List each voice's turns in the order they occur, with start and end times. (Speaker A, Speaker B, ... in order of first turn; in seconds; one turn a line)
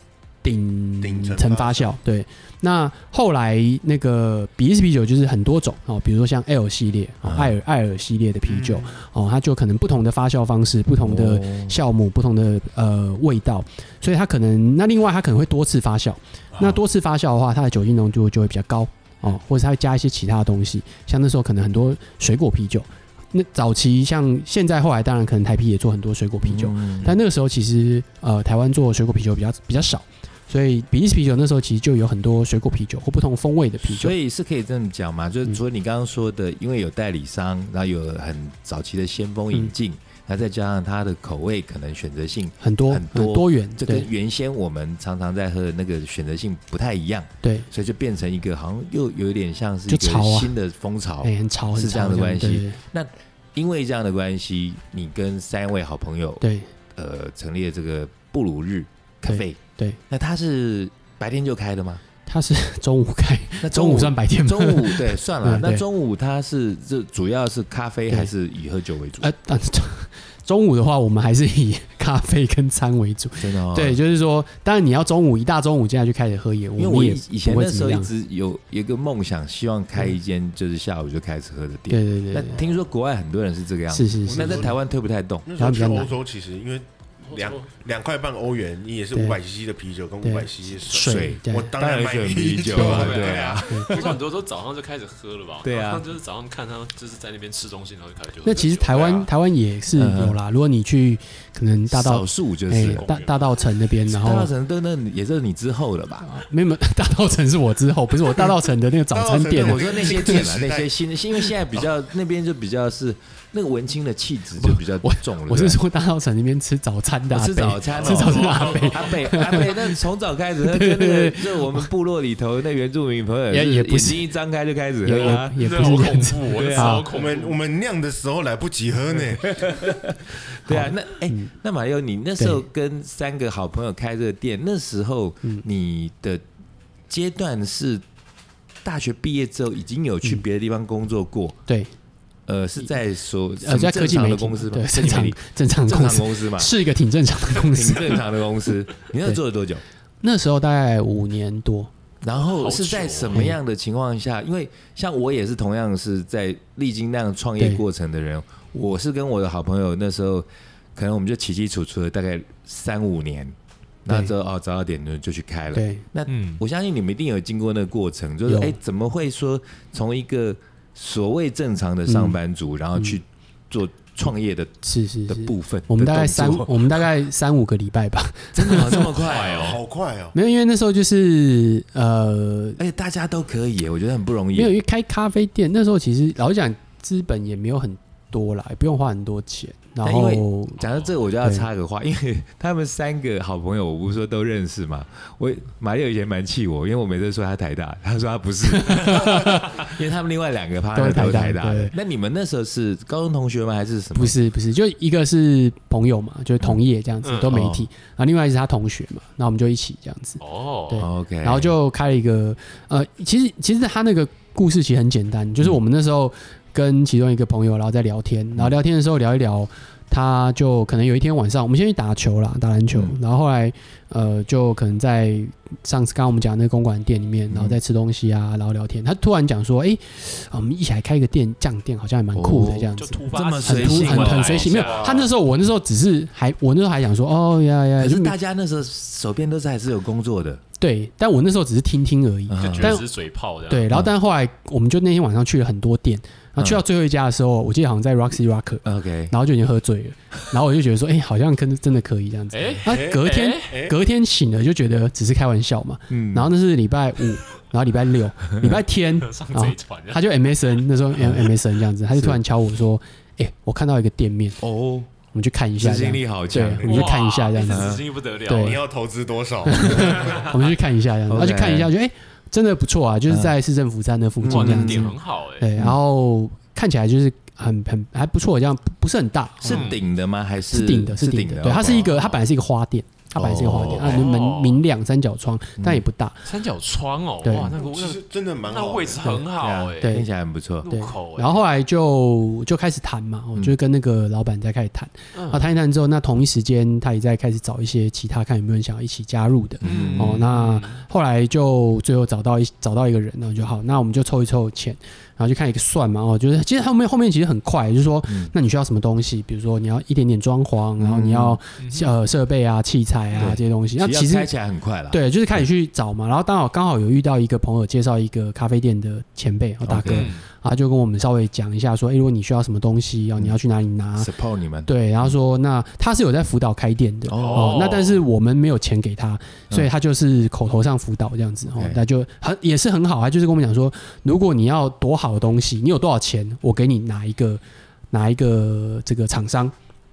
Speaker A: 0.4-34.1
Speaker B: 1.0-1.9
Speaker C: 7.2-7.5
Speaker B: 8.5-8.9
Speaker C: 11.0-11.8
Speaker C: 26.4-27.2
Speaker C: 33.8-56.4
Speaker A: 42.6-44.1
Speaker A: 47.4-47.7
Speaker A: 49.9-50.5
Speaker A: 51.2-52.8
Speaker A: 56.4-56.7
Speaker C: 57.0-62.0
Speaker A: 59.2-60.0
Speaker A: 62.3-65.8
Speaker C: 63.6-69.3
Speaker A: 69.2-78.1
Speaker C: 73.4-74.0
Speaker C: 76.8-85.5
Speaker A: 81.9-82.6
Speaker A: 83.9-84.7
Speaker B: 84.3-84.8
Speaker B: 85.5-94.2
Speaker A: 85.6-86.1
Speaker D: 87.3-87.7
Speaker A: 90.2-91.7
Speaker C: 91.0-94.2
Speaker D: 92.8-99.3
Speaker A: 92.8-93.1
Speaker C: 95.6-96.1
Speaker A: 98.4-104.5
Speaker C: 100.0-100.4
Speaker C: 101.9-103.0
Speaker D: 102.8-103.6
Speaker C: 104.1-106.3
Speaker A: 106.2-110.3
Speaker B: 109.1-110.9
Speaker C: 109.6-115.8
Speaker A: 114.6-120.0
Speaker C: 117.3-125.9
Speaker D: 117.9-119.2
Speaker A: 120.6-121.9
Speaker A: 123.5-124.2
Speaker A: 125.0-127.1
Speaker D: 125.2-127.6
Speaker C: 126.5-127.0
Speaker B: 127.1-129.7
Speaker C: 129.5-136.4
Speaker A: 130.7-131.5
Speaker C: 137.1-138.0
Speaker C: 138.8-141.6
Speaker A: 141.7-141.9
Speaker C: 142.5-146.7
Speaker A: 143.6-148.2
Speaker C: 147.6-149.8
Speaker A: 150.2-151.9
Speaker C: 152.2-174.7
Speaker D: 152.5-153.5
Speaker A: 165.7-166.0
Speaker D: 166.3-166.6
Speaker A: 168.5-168.8
Speaker A: 172.1-172.4
Speaker A: 174.8-179.2
Speaker C: 175.3-177.1
Speaker C: 178.5-179.8
Speaker D: 179.2-179.8
Speaker B: 179.3-180.4
Speaker A: 180.3-182.8
Speaker C: 182.8-184.8
Speaker A: 184.6-190.8
Speaker C: 190.0-204.4
Speaker A: 191.4-191.7
Speaker A: 198.7-199.8
Speaker A: 200.9-201.9
Speaker A: 204.2-238.3
Speaker D: 207.2-207.6
Speaker C: 207.5-207.8
Speaker D: 210.4-211.1
Speaker C: 211.0-211.7
Speaker C: 227.5-227.8
Speaker C: 232.3-235.0
Speaker D: 233.0-235.3
Speaker C: 238.0-240.6
Speaker A: 240.8-243.1
Speaker C: 242.5-243.0
Speaker D: 242.6-243.9
Speaker A: 243.7-264.6
Speaker C: 246.6-246.8
Speaker C: 248.8-249.3
Speaker D: 252.5-253.7
Speaker B: 252.9-253.9
Speaker C: 256.1-256.5
Speaker D: 259.2-260.3
Speaker C: 261.2-261.5
Speaker C: 262.1-262.4
Speaker C: 264.6-265.1
Speaker A: 265.3-268.8
Speaker C: 265.8-267.1
Speaker D: 266.8-268.9
Speaker C: 267.7-268.0
Speaker B: 268.5-270.5
Speaker A: 269.6-279.9
Speaker D: 269.9-270.5
Speaker C: 271.3-271.9
Speaker C: 273.3-273.6
Speaker C: 274.4-275.1
Speaker D: 274.5-275.7
Speaker C: 279.6-282.2
Speaker D: 279.7-280.0
Speaker A: 280.7-286.5
Speaker C: 283.4-284.3
Speaker D: 283.7-284.8
Speaker C: 285.8-286.0
Speaker D: 286.4-290.2
Speaker A: 287.4-287.7
Speaker B: 287.6-289.4
Speaker C: 289.6-290.9
Speaker A: 290.0-290.3
Speaker D: 290.8-291.6
Speaker A: 290.9-314.5
Speaker D: 295.3-295.7
Speaker C: 299.8-300.4
Speaker D: 299.8-301.0
Speaker C: 308.3-308.5
Speaker C: 311.0-311.6
Speaker D: 311.8-312.1
Speaker C: 313.4-315.2
Speaker A: 315.1-324.3
Speaker C: 319.9-320.3
Speaker D: 320.1-320.4
Speaker C: 324.2-325.3
Speaker A: 324.9-339.7
Speaker C: 327.3-327.9
Speaker D: 327.3-328.2
Speaker C: 331.7-332.0